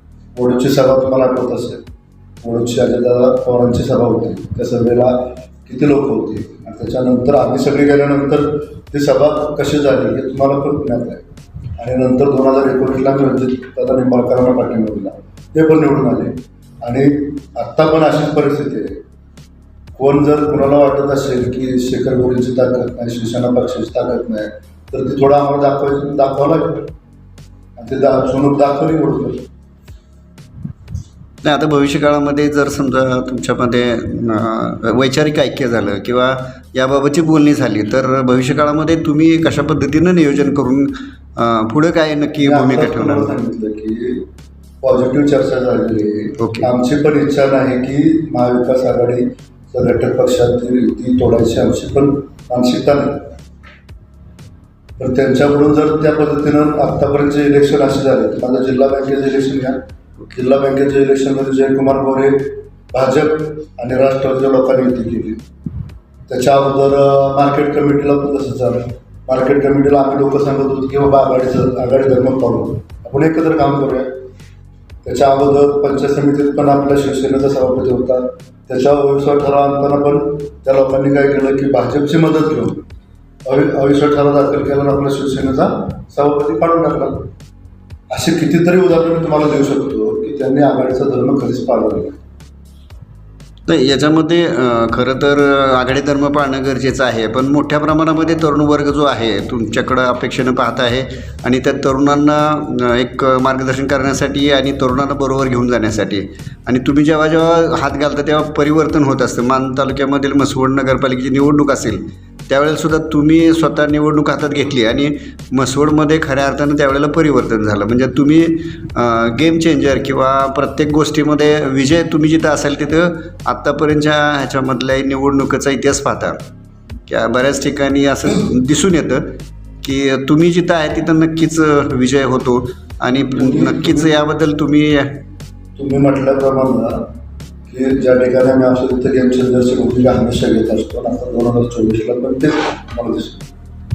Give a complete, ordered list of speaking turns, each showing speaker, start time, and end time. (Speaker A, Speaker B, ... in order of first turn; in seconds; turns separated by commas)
Speaker A: 0.3-1.8, Speaker A: 2.4-11.2, Speaker A: 11.8-19.0, Speaker A: 19.9-26.9, Speaker A: 27.8-29.4, Speaker B: 31.4-43.3, Speaker A: 42.4-44.2, Speaker A: 44.8-53.4, Speaker B: 46.4-46.7, Speaker A: 55.0-59.8, Speaker A: 60.3-65.4, Speaker A: 66.3-74.2, Speaker A: 75.0-82.8, Speaker A: 83.4-87.3, Speaker A: 88.1-92.2, Speaker B: 93.7-126.4, Speaker B: 127.1-135.2, Speaker A: 133.3-134.1, Speaker A: 135.8-137.1, Speaker A: 137.7-143.5